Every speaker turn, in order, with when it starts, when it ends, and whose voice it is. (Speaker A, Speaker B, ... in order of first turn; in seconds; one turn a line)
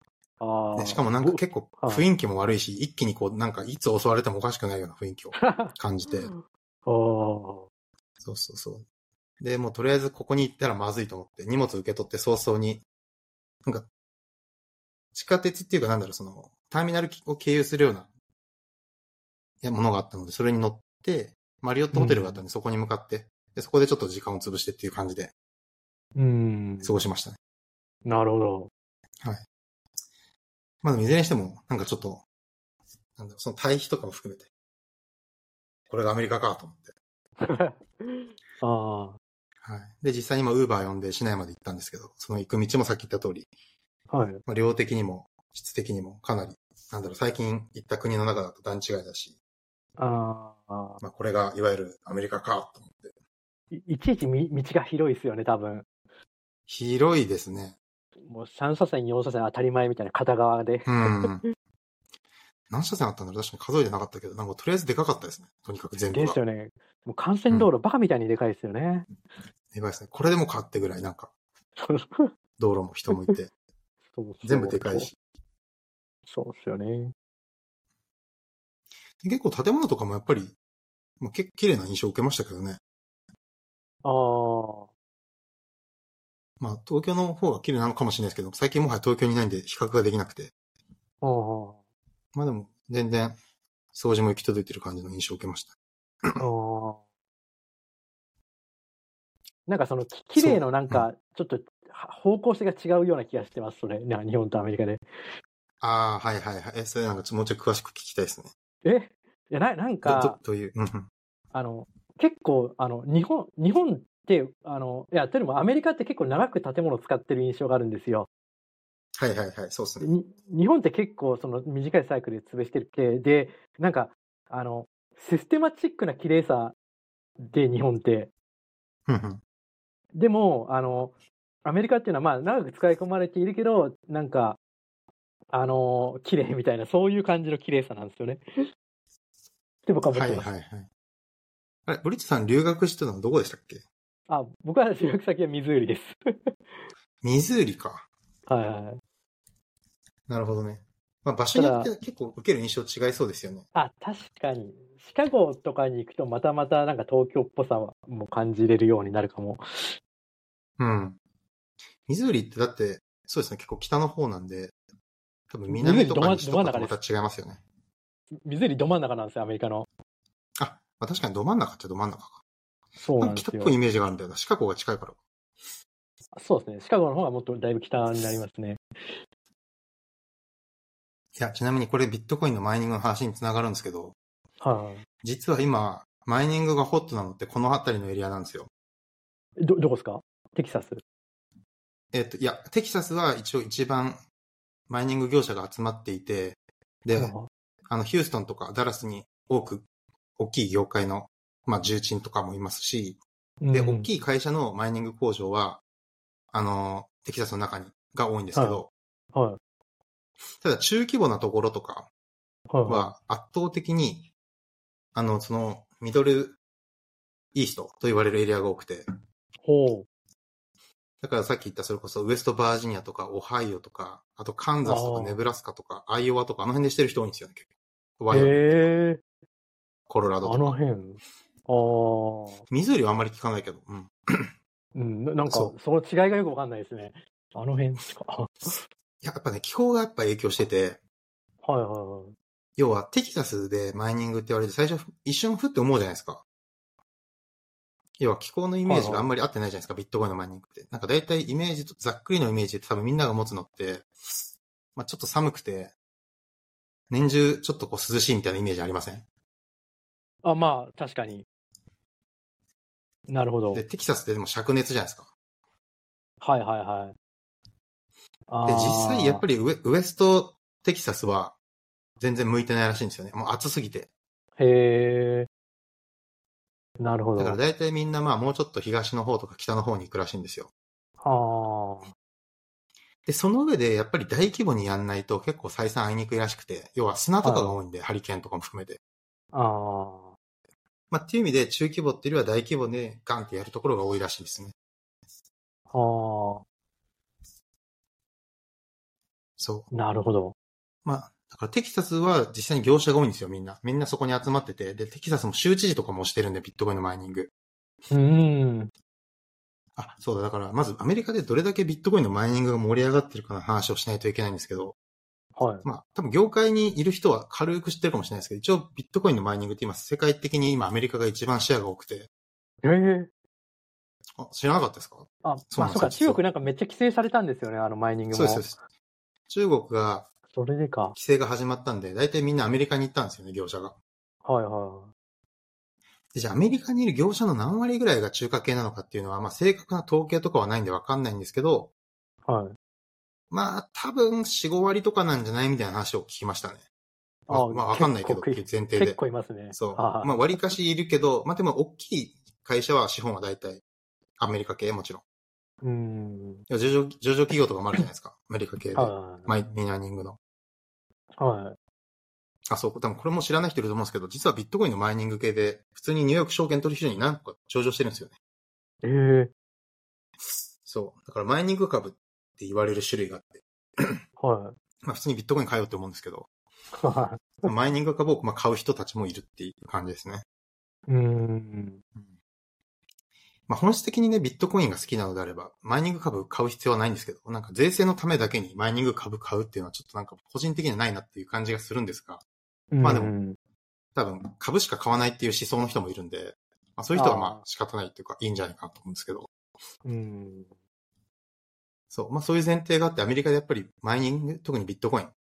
Speaker A: 0.4-2.0
Speaker B: 0.7-6.3
Speaker A: 5.4-7.7
Speaker B: 8.2-8.8
Speaker B: 9.4-12.8
Speaker B: 15.1-18.1
Speaker B: 19.6-25.3
Speaker A: 21.9-22.4
Speaker A: 26.1-27.0
Speaker B: 26.8-27.4
Speaker A: 28.0-28.7
Speaker B: 30.8-32.2
Speaker B: 33.2-34.5
Speaker B: 35.9-36.9
Speaker A: 37.4-39.2
Speaker B: 39.6-43.5
Speaker A: 44.1-44.4
Speaker B: 44.5-49.3
Speaker A: 50.0-51.0
Speaker B: 51.0-53.1
Speaker A: 53.7-55.9
Speaker B: 56.7-57.8
Speaker A: 58.2-61.5
Speaker B: 60.9-61.5
Speaker B: 62.7-66.4
Speaker A: 66.1-69.1
Speaker B: 69.7-71.3
Speaker A: 71.8-72.3
Speaker B: 72.6-73.5
Speaker A: 74.1-75.1
Speaker B: 74.4-75.1
Speaker A: 76.3-77.1
Speaker B: 79.2-80.5
Speaker B: 81.2-82.8
Speaker A: 84.0-84.9
Speaker B: 86.6-90.5
Speaker A: 91.2-91.8
Speaker B: 92.3-93.3
Speaker B: 93.9-95.7
Speaker A: 96.4-97.0
Speaker A: 99.7-105.0
Speaker B: 100.3-101.1
Speaker B: 105.8-108.5
Speaker A: 108.8-110.4
Speaker B: 110.0-111.1
Speaker A: 111.5-118.3
Speaker B: 119.2-120.1
Speaker A: 120.0-126.8
Speaker A: 127.4-128.3
Speaker B: 129.1-129.4
Speaker A: 130.1-134.6
Speaker A: 135.5-138.4
Speaker A: 139.8-140.4
Speaker B: 140.1-140.9
Speaker B: 141.9-143.8
Speaker A: 144.3-146.2
Speaker B: 147.2-148.1
Speaker A: 148.5-149.0
Speaker B: 150.3-153.6
Speaker A: 151.5-151.9
Speaker A: 153.7-160.0
Speaker B: 160.8-161.2
Speaker B: 162.1-164.7
Speaker B: 165.5-167.6
Speaker A: 165.7-166.9
Speaker A: 168.4-169.9
Speaker B: 170.6-172.4
Speaker A: 173.0-173.7
Speaker B: 173.2-175.2
Speaker A: 176.3-179.2
Speaker B: 181.4-184.1
Speaker A: 184.6-185.0
Speaker B: 185.2-188.7
Speaker A: 189.6-191.0
Speaker B: 192.1-194.2
Speaker B: 194.9-197.3
Speaker A: 197.2-197.5
Speaker B: 197.9-199.8
Speaker B: 200.4-203.2
Speaker A: 203.6-204.1
Speaker B: 203.7-205.8
Speaker B: 206.5-208.9
Speaker A: 208.5-208.8
Speaker A: 209.3-209.6
Speaker B: 210.6-212.1
Speaker A: 212.7-213.1
Speaker B: 212.8-214.3
Speaker B: 215.1-216.6
Speaker B: 217.5-219.1
Speaker A: 219.6-220.1
Speaker B: 221.2-227.7
Speaker A: 224.8-225.4
Speaker B: 228.2-228.9
Speaker A: 228.3-229.2
Speaker B: 230.1-230.8
Speaker A: 230.4-232.6
Speaker B: 232.7-234.5
Speaker A: 234.9-238.8
Speaker B: 235.5-235.7
Speaker B: 239.2-241.0
Speaker A: 241.6-242.3
Speaker B: 242.8-246.4
Speaker B: 248.2-254.1
Speaker A: 248.8-249.3
Speaker B: 254.9-255.9
Speaker B: 257.1-259.2
Speaker A: 260.4-261.4
Speaker A: 263.3-263.8
Speaker B: 263.7-265.3
Speaker A: 266.4-267.1
Speaker A: 268.5-269.4
Speaker B: 268.6-271.6
Speaker B: 272.2-274.1
Speaker A: 274.6-275.5
Speaker A: 277.0-277.6
Speaker B: 277.4-280.7
Speaker A: 281.2-282.1
Speaker B: 283.2-289.0
Speaker A: 287.4-287.8
Speaker A: 289.5-290.3
Speaker B: 291.1-294.7
Speaker A: 295.9-296.6
Speaker B: 299.6-299.9
Speaker A: 299.9-300.5
Speaker B: 301.0-307.5
Speaker A: 308.1-308.9
Speaker B: 310.0-314.9
Speaker A: 315.6-315.8
Speaker B: 315.8-322.3
Speaker A: 322.8-323.3
Speaker B: 324.4-326.4
Speaker A: 325.4-328.6
Speaker B: 328.3-328.8
Speaker B: 329.5-330.3
Speaker A: 330.5-331.1
Speaker B: 331.1-333.9
Speaker A: 334.4-335.1
Speaker B: 336.3-341.9
Speaker A: 342.4-342.8
Speaker B: 343.5-346.8
Speaker A: 347.5-350.5
Speaker B: 347.5-349.2
Speaker B: 349.7-353.8
Speaker B: 354.4-355.2
Speaker A: 355.8-356.6
Speaker B: 356.7-360.4
Speaker A: 358.9-359.5
Speaker A: 361.4-361.8
Speaker B: 362.7-368.3
Speaker A: 369.0-369.5
Speaker B: 370.5-374.2
Speaker A: 374.4-374.8
Speaker B: 375.0-376.5
Speaker A: 376.9-377.7
Speaker B: 377.6-380.4
Speaker A: 381.1-382.0
Speaker B: 383.7-392.4
Speaker A: 392.9-393.6
Speaker B: 393.0-393.3
Speaker B: 394.1-399.5
Speaker A: 397.1-397.6
Speaker A: 400.0-400.7
Speaker B: 402.1-405.3